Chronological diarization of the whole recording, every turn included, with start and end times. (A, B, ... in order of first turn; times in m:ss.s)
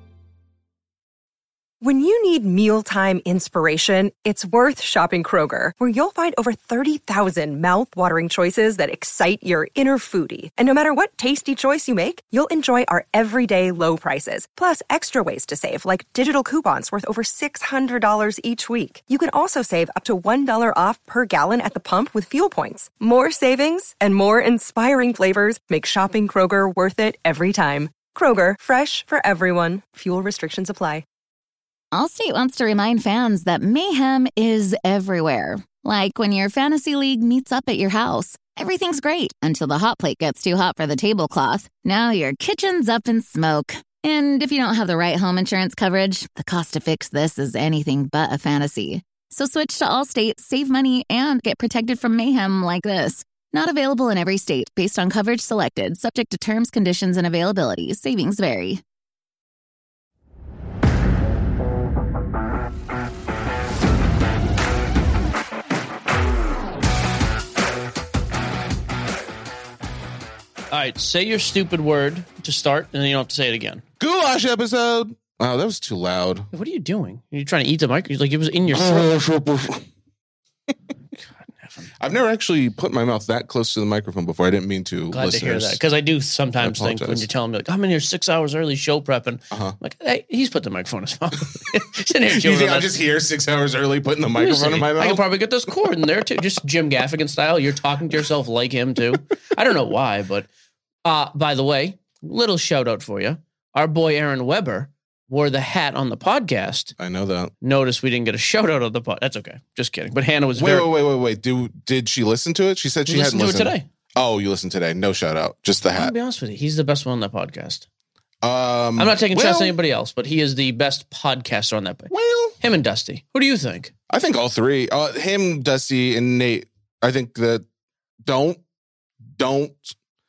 0:01.8-0:31.0 A
0:31.9-0:58.8 B
1:10.7-1:13.8 C
1:14.0-1:16.5 D
1:16.5-1:19.1 C
1:18.7-1:19.8 D
1:21.6-1:21.9 C
1:22.0-1:25.8 D
1:25.1-1:32.9 C
1:26.6-1:27.3 D
1:29.5-1:29.8 D
1:32.3-1:35.9 D
1:34.3-1:40.5 C
1:41.0-1:46.9 C
1:47.0-1:47.5 D
1:47.6-1:50.9 C
1:50.6-1:56.1 D
1:53.1-1:53.8 C
1:56.0-1:57.8 C
1:58.4-1:59.7 D
1:59.0-2:03.9 C
2:02.1-2:02.6 D
2:04.1-2:07.6 D
2:08.2-2:08.6 D
2:09.4-2:10.0 D